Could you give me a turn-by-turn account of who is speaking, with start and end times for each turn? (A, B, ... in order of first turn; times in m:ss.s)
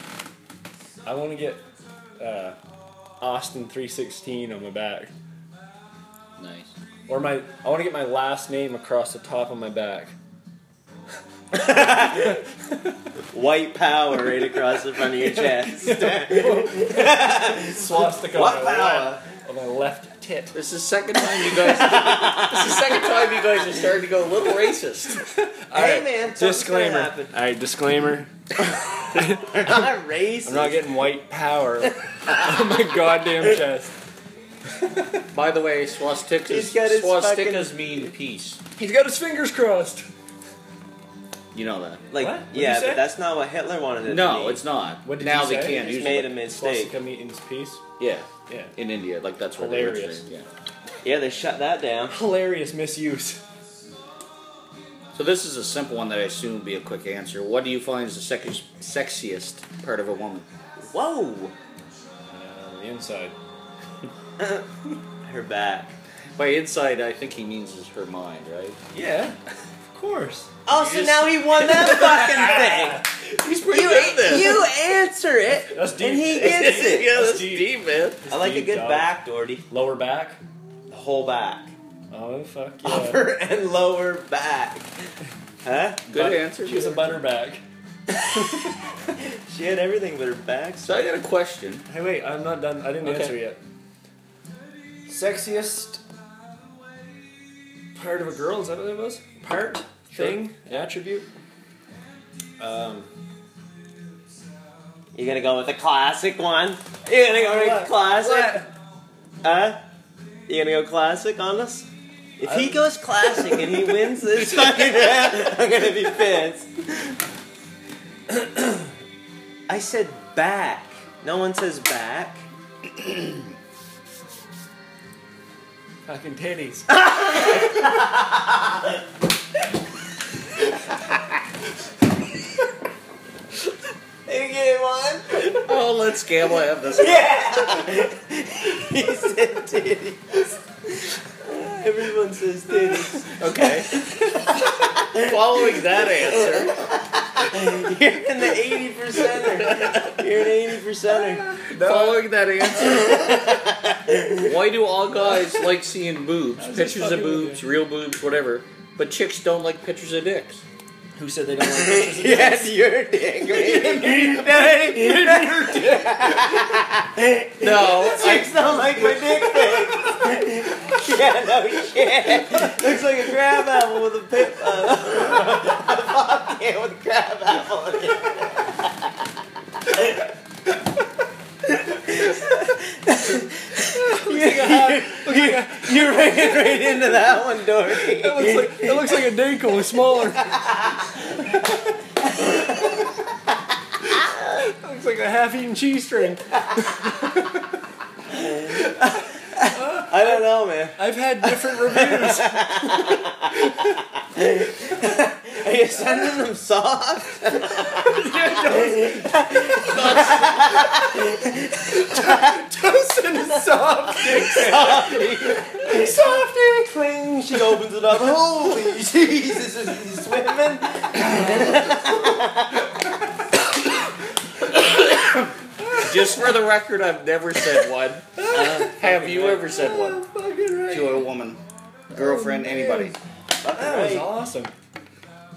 0:01.0-0:01.6 A
0:02.2-0:02.6 A
0:03.2-0:05.1 A
0:06.4-0:06.7 B
0:07.1-0:10.1 A
0:11.5-0:12.4 C
0:13.3-0:19.2 C
0:15.4-0:20.6 A
0:20.5-0:25.2 B
0:21.4-0:22.9 C
0:25.2-0:28.3 A
0:25.7-0:27.3 C
0:28.6-0:30.9 C
0:29.0-0:29.9 A
0:30.5-0:34.0 A
0:32.2-0:33.0 C
0:34.8-0:35.1 A
0:35.3-0:38.6 B
0:36.5-0:38.1 C
0:38.8-0:40.1 A
0:41.5-0:42.0 B
0:42.1-0:44.6 C
0:42.2-0:43.1 A
0:44.0-0:46.3 B
0:45.0-0:47.8 A
0:45.7-0:46.9 C
0:48.0-0:50.5 B
0:48.5-0:48.7 A
0:49.6-0:50.2 A
0:51.0-0:52.2 C
0:52.1-0:53.4 A
0:55.1-1:00.5 B
1:00.9-1:01.5 C
1:02.3-1:03.4 A
1:04.4-1:04.7 C
1:05.2-1:05.9 C
1:06.4-1:08.8 B
1:08.9-1:09.4 A
1:09.9-1:10.5 A
1:10.7-1:13.1 C
1:10.7-1:12.6 B
1:12.0-1:13.1 A
1:13.3-1:14.7 B
1:13.7-1:17.1 C
1:15.7-1:19.1 A
1:16.4-1:18.2 B
1:18.3-1:19.6 C
1:19.7-1:20.4 A
1:20.9-1:21.7 C
1:22.1-1:23.2 A
1:22.8-1:24.9 C
1:25.6-1:26.2 C
1:26.1-1:27.2 B
1:26.1-1:27.6 A
1:28.4-1:28.7 A
1:29.2-1:31.0 C
1:30.8-1:31.8 B
1:31.9-1:33.6 A
1:33.0-1:33.4 B
1:35.1-1:36.0 A
1:38.0-1:41.3 A
1:42.6-1:43.1 A
1:45.2-1:48.7 C
1:47.3-1:48.7 A
1:49.4-1:49.8 C
1:50.5-1:51.9 C
1:52.4-1:57.1 C
1:52.4-1:53.9 A
1:59.7-2:02.4 C
2:06.1-2:07.0 A
2:06.9-2:08.9 C
2:14.3-2:15.7 C
2:15.4-2:17.4 B
2:16.9-2:31.4 C
2:23.2-2:23.9 A
2:23.4-2:23.9 B
2:25.1-2:26.8 B
2:31.3-2:32.3 A
2:31.7-2:33.4 B
2:32.8-2:34.5 C
2:34.4-2:40.6 B
2:36.6-2:37.6 A
2:41.2-2:42.7 A
2:41.6-2:59.1 C
2:43.5-2:46.6 A
2:47.6-2:49.2 B
2:59.8-3:00.3 C
3:01.7-3:09.2 C
3:03.9-3:06.6 A
3:07.9-3:10.6 A
3:10.6-3:11.6 C
3:12.2-3:13.0 C
3:14.5-3:17.6 A
3:18.3-3:32.6 C
3:19.8-3:20.4 A
3:21.0-3:24.0 A
3:27.9-3:31.2 A
3:31.8-3:36.9 A
3:34.1-3:43.0 C
3:45.8-3:46.5 A
3:46.0-3:50.2 B
3:48.4-3:51.3 A
3:50.9-3:53.2 B
3:52.1-3:53.2 A
3:53.6-3:54.3 C
3:53.7-3:54.7 A